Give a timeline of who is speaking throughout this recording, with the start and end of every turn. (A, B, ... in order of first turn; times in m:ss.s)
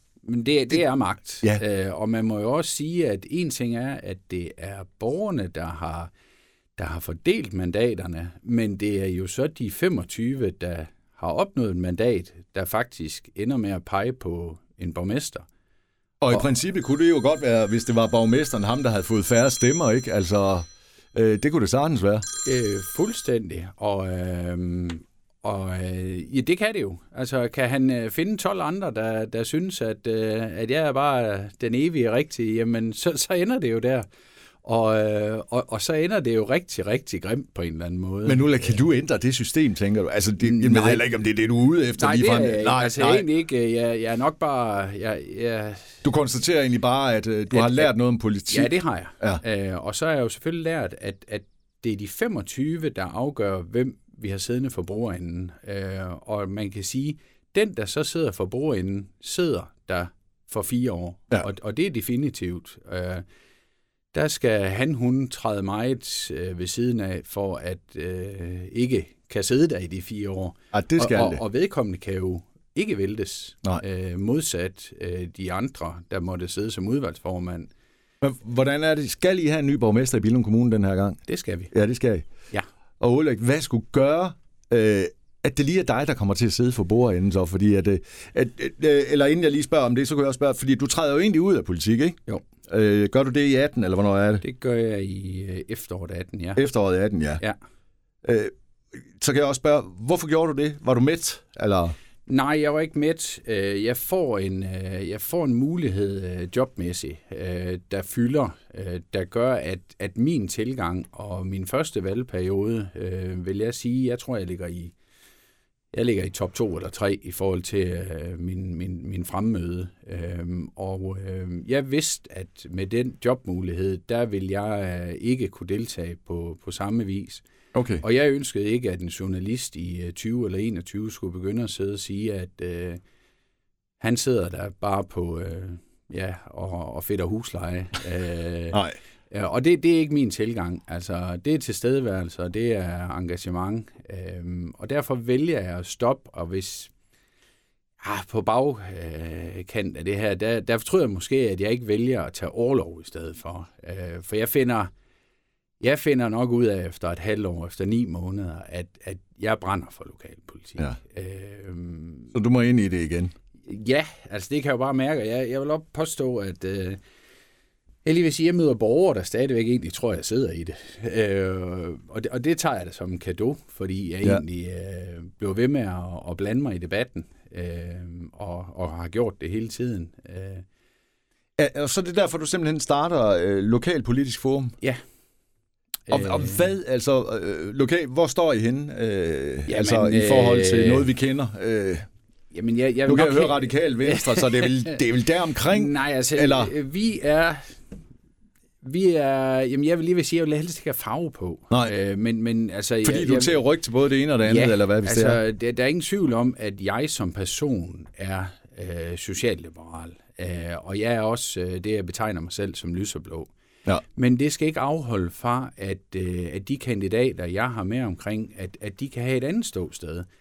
0:00.2-0:06.1 A
0:06.8-0:15.5 A
0:16.2-0:22.3 B
0:22.4-0:34.1 A
0:34.6-0:38.8 A
0:38.3-0:43.2 B
0:40.4-0:41.0 A
0:42.0-0:46.0 A
0:46.0-0:49.4 B
0:47.5-0:47.9 A
0:48.5-1:03.2 A
1:04.1-1:17.7 A
1:10.7-1:11.4 B
1:18.2-1:21.2 B
1:21.3-1:21.7 A
1:21.7-1:22.3 B
1:23.0-1:34.4 B
1:34.4-1:36.6 A
1:36.6-1:37.4 B
1:38.2-1:42.0 B
1:42.3-1:54.9 A
1:55.9-2:07.4 A
2:07.7-2:08.0 B
2:08.0-2:13.0 A
2:14.0-2:18.8 A
2:19.3-2:26.9 A
2:28.0-2:34.9 A
2:35.8-2:42.3 A
2:42.3-2:43.3 B
2:43.7-2:47.0 A
2:48.0-3:00.6 A
3:01.6-3:04.8 B
3:06.1-3:06.6 A
3:06.1-3:12.1 B
3:09.7-3:11.1 A
3:12.5-3:15.0 A
3:13.1-3:16.7 B
3:15.7-3:17.8 A
3:18.8-3:23.6 A
3:23.0-3:25.4 B
3:24.4-3:33.5 A
3:34.2-3:40.3 A